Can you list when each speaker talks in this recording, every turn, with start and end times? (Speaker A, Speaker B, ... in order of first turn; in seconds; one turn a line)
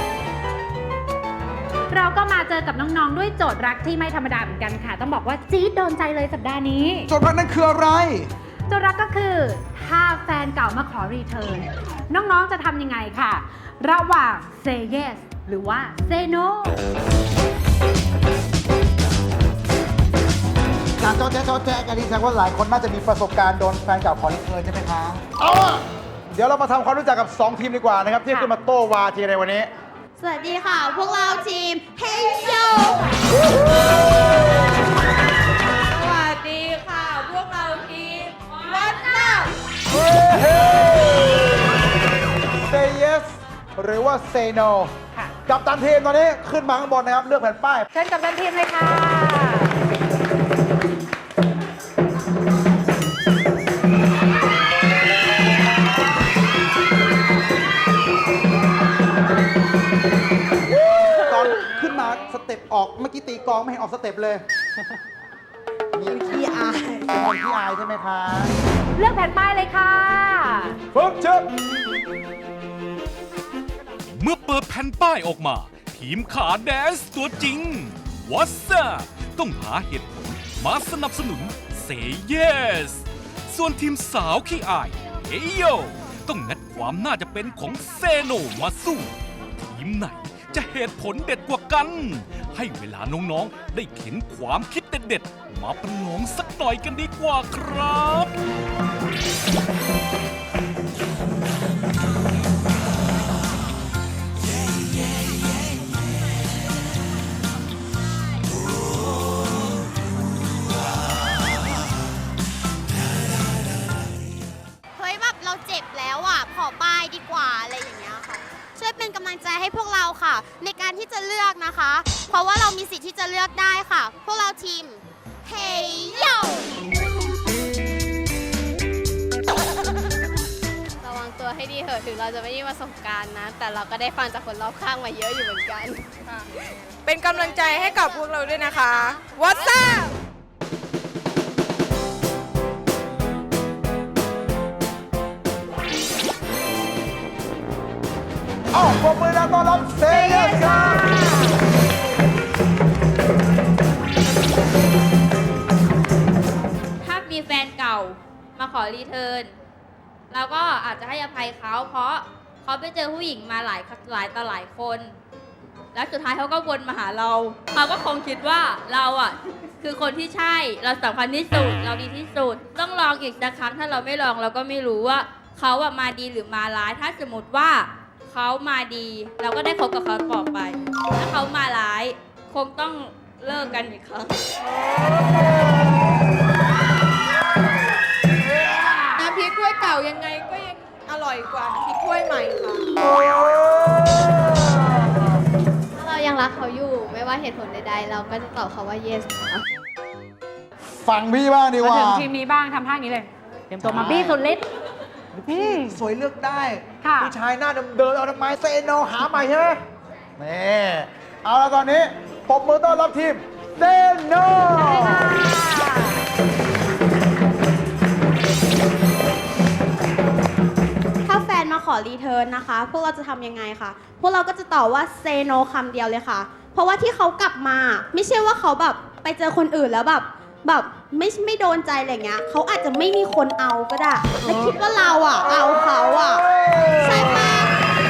Speaker A: 1.9-7.0
Speaker B: 7.1-8.3
Speaker A: 8.7-16.7
Speaker B: 21.0-29.7
Speaker C: 30.2-33.2
Speaker B: 33.8-34.5
Speaker D: 36.5-38.9
Speaker B: 39.9-41.6
Speaker B: 42.6-44.9
Speaker B: 45.5-47.9
Speaker A: 47.9-49.7
Speaker B: 60.7-64.5
Speaker B: 66.0-66.3
Speaker C: 66.0-67.1
Speaker B: 67.1-68.5
Speaker A: 69.0-70.7
Speaker B: 70.9-71.5
Speaker E: 74.2-89.1
Speaker E: 89.7-98.3
Speaker C: 115.0-126.7
Speaker F: 131.0-136.0
Speaker G: 137.1-140.1
Speaker F: 137.4-138.2
Speaker F: 138.7-139.2
Speaker B: 148.7-151.2
Speaker D: 157.0-159.5
Speaker D: 160.3-165.2
Speaker D: 165.9-184.4
Speaker G: 189.2-192.8
Speaker B: 193.2-194.0
Speaker F: 196.0-199.6
Speaker B: 201.0-202.3
Speaker A: 201.8-204.6
Speaker B: 203.8-204.4
Speaker B: 205.4-209.8
Speaker A: 205.5-205.9
Speaker A: 207.0-207.3
Speaker B: 210.4-215.4
Speaker D: 215.4-215.8
Speaker A: 215.6-216.0
Speaker C: 221.2-237.8